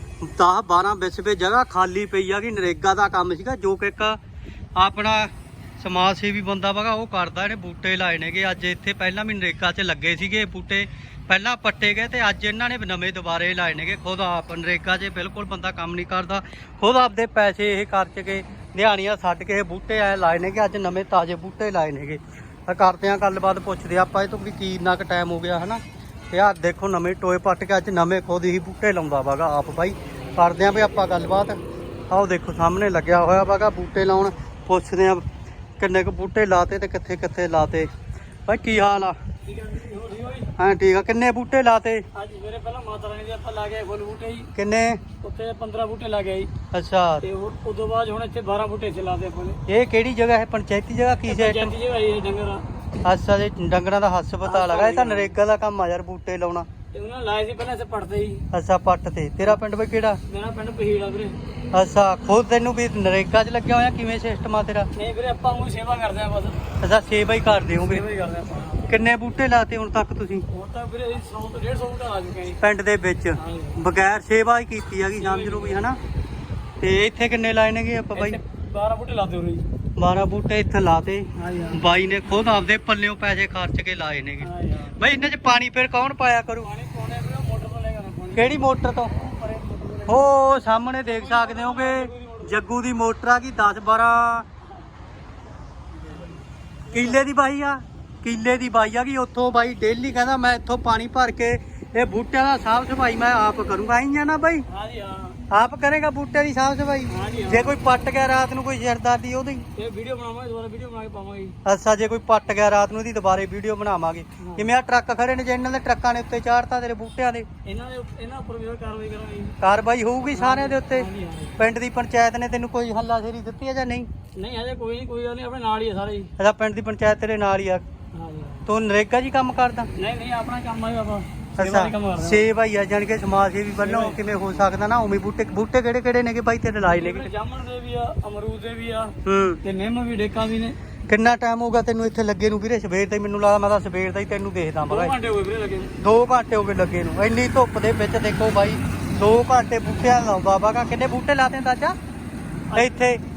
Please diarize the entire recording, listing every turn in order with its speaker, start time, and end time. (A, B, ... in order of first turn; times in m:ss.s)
0:00.2-0:04.2 A
0:04.8-0:25.8 A
0:26.3-0:31.6 A
0:32.1-0:35.2 A
0:35.8-0:37.9 A
0:38.5-0:39.2 A
0:39.4-0:40.5 B
0:40.6-0:42.0 A
0:42.1-0:44.5 B
0:44.5-0:45.0 A
0:45.2-0:46.5 B
0:46.7-0:47.2 A
0:47.2-0:49.6 B
0:49.7-0:51.7 A
0:51.3-0:52.6 B
0:53.0-0:56.6 A
0:54.4-0:55.3 B
0:56.9-0:58.4 B
0:58.5-1:00.2 A
1:00.3-1:01.4 B
1:01.7-1:04.9 A
1:04.9-1:06.6 B
1:06.8-1:08.0 A
1:07.7-1:09.0 B
1:08.8-1:10.4 A
1:10.5-1:12.6 B
1:12.6-1:16.0 A
1:13.4-1:13.8 B
1:15.1-1:15.9 B
1:16.8-1:18.4 A
1:18.1-1:19.6 B
1:20.0-1:26.7 A
1:21.4-1:21.8 B
1:24.4-1:25.0 B
1:26.6-1:30.3 B
1:28.3-1:29.1 A
1:30.1-1:34.5 A
1:31.0-1:32.6 B
1:36.1-1:36.4 B
1:36.9-1:44.6 A
1:36.9-1:37.2 B
1:44.7-1:45.4 B
1:45.5-1:49.6 A
1:47.1-1:47.8 B
1:49.8-1:51.6 B
1:51.6-1:57.4 A
1:54.4-1:54.7 B
1:57.6-1:59.6 B
1:59.6-2:01.1 A
2:00.3-2:01.6 B
2:01.6-2:04.1 A
2:04.4-2:06.3 B
2:06.4-2:07.8 A
2:08.1-2:08.7 B
2:08.6-2:09.9 A
2:10.0-2:12.4 B
2:11.6-2:17.3 A
2:13.8-2:14.2 B
2:16.8-2:20.8 B
2:19.2-2:19.6 A
2:21.1-2:25.1 A
2:24.9-2:25.9 B
2:26.0-2:32.0 A
2:32.7-2:33.0 B
2:32.7-2:33.2 A